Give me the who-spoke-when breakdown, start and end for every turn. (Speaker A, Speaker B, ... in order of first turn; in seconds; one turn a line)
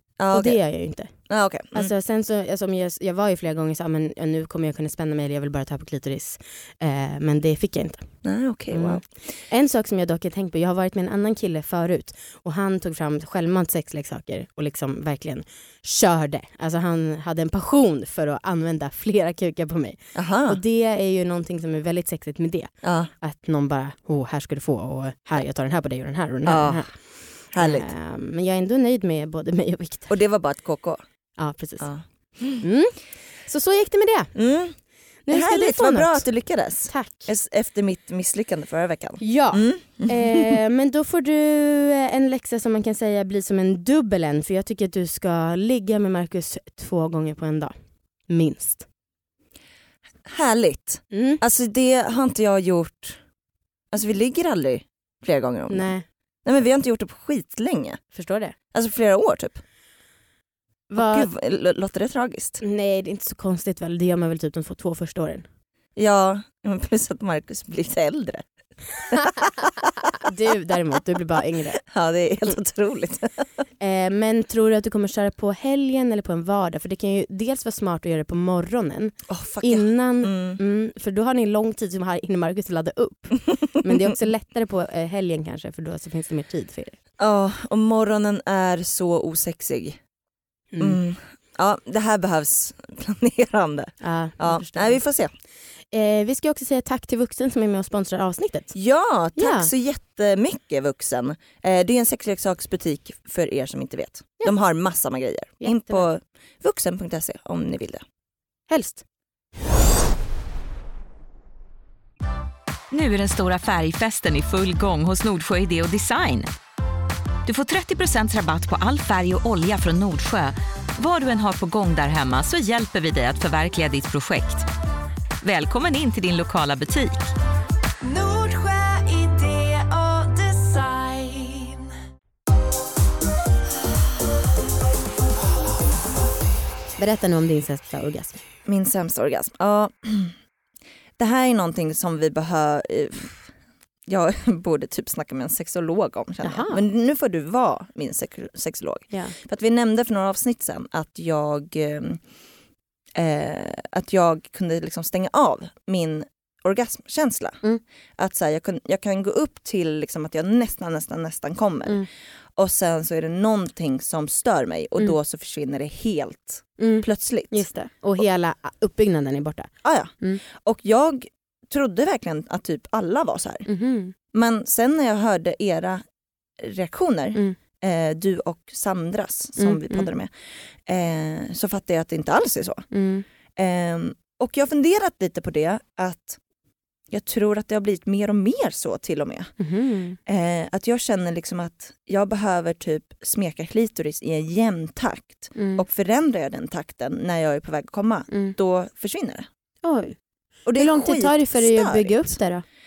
Speaker A: 0.2-0.6
Speaker B: 0.3-1.1
Speaker A: 1.3-1.9
Speaker B: 1.7-8.1
Speaker A: 8.2-9.0
Speaker B: 8.7-26.9
Speaker A: 20.1-20.6
Speaker A: 22.8-23.1
Speaker A: 26.4-26.9
Speaker A: 27.5-27.9
Speaker B: 27.6-30.1
Speaker A: 30.1-31.0
Speaker B: 31.4-31.9
Speaker A: 31.8-32.6
Speaker B: 32.6-34.3
Speaker A: 34.4-34.8
Speaker B: 35.3-36.2
Speaker A: 35.3-40.6
Speaker B: 36.9-37.3
Speaker B: 39.2-47.7
Speaker B: 48.3-48.9
Speaker A: 50.2-53.2
Speaker B: 51.1-51.4
Speaker A: 53.9-55.9
Speaker B: 55.7-56.0
Speaker A: 56.5-58.0
Speaker B: 58.1-58.5
Speaker A: 58.7-59.6
Speaker B: 60.9-61.3
Speaker A: 61.0-62.6
Speaker B: 62.6-65.5
Speaker A: 66.0-68.5
Speaker A: 69.1-70.1
Speaker B: 70.2-71.8
Speaker A: 71.8-73.5
Speaker B: 73.8-87.0
Speaker A: 79.3-80.6
Speaker A: 87.2-90.0
Speaker B: 90.7-91.0
Speaker A: 90.8-95.3
Speaker B: 94.0-95.0
Speaker B: 95.9-98.7
Speaker A: 98.7-108.0
Speaker B: 99.4-99.7
Speaker B: 105.6-106.0
Speaker B: 108.7-109.0
Speaker C: 112.9-116.5
Speaker C: 117.5-124.7
Speaker C: 125.4-127.3
Speaker B: 128.0-131.9
Speaker B: 137.0-138.4
Speaker A: 138.7-140.3
Speaker A: 141.2-143.5
Speaker A: 144.1-152.2
Speaker B: 146.4-146.8
Speaker A: 153.2-157.6
Speaker A: 158.2-162.1
Speaker A: 162.6-167.7
Speaker B: 166.8-170.4
Speaker A: 169.8-173.7
Speaker B: 173.7-174.1
Speaker A: 174.3-176.0
Speaker A: 176.6-180.3
Speaker B: 179.6-180.1
Speaker A: 180.9-182.9
Speaker B: 182.9-183.2
Speaker A: 183.6-186.4
Speaker A: 187.1-189.5
Speaker B: 189.6-190.2
Speaker A: 190.3-199.5
Speaker B: 195.6-195.8
Speaker B: 199.8-200.2
Speaker A: 200.7-202.4
Speaker B: 200.8-202.6